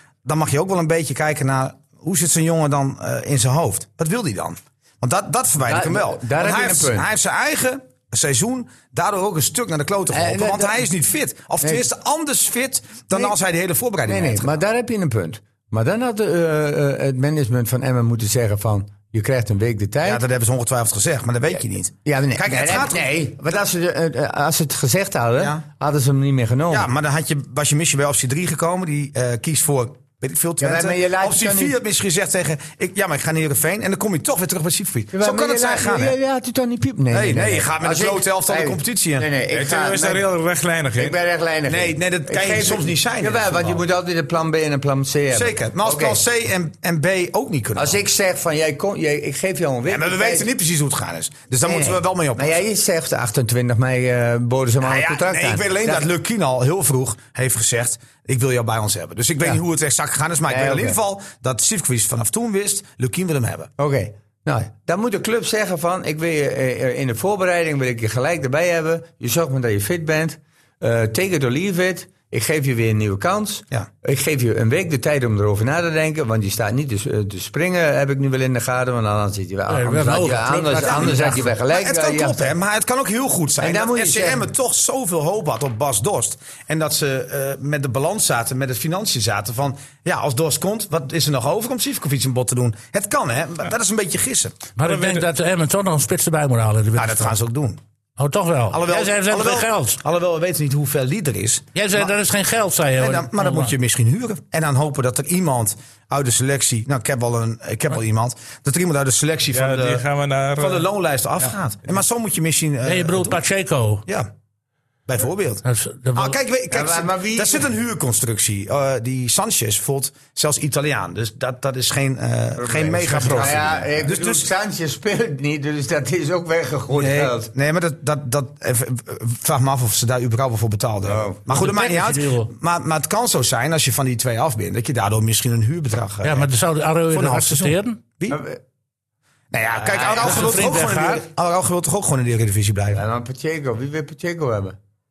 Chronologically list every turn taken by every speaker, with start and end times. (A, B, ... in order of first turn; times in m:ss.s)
0:00.2-0:14.6 A
0:05.6-0:07.1 B
0:10.1-0:10.9 B
0:11.6-0:11.9 B
0:14.1-0:20.2 B
0:20.0-0:23.0 A
0:22.0-0:26.9 B
0:26.7-0:36.2 A
0:30.6-0:31.8 B
0:35.1-0:40.3 B
0:37.1-0:39.3 A
0:39.5-0:41.2 C
0:41.0-0:46.2 B
0:41.7-0:43.8 A
0:45.3-0:48.0 A
0:47.8-0:50.5 B
0:49.9-0:52.6 A
0:51.6-0:56.1 B
0:54.8-1:03.7 A
1:00.5-1:01.0 B
1:03.8-1:22.6 B
1:19.7-1:21.4 D
1:20.8-1:34.6 A
1:23.6-1:24.5 B
1:34.8-1:37.4 D
1:34.8-1:35.2 C
1:37.0-1:37.8 A
1:38.2-1:40.0 D
1:38.7-1:42.1 A
1:41.8-1:43.7 D
1:43.0-1:50.0 A
1:49.5-1:50.9 C
1:50.6-1:53.4 A
1:52.8-1:54.0 D
1:55.1-1:55.6 A
1:55.6-1:56.4 D
1:56.2-2:04.5 A
1:56.7-1:57.7 B
2:02.6-2:07.5 B
2:07.0-2:16.5 A
2:11.0-2:11.4 B
2:11.5-2:12.5 D
2:16.2-2:18.0 D
2:17.1-2:18.4 A
2:18.3-2:18.6 B
2:19.5-2:23.0 A
2:19.8-2:20.5 B
2:20.0-2:21.2 D
2:22.9-2:24.8 B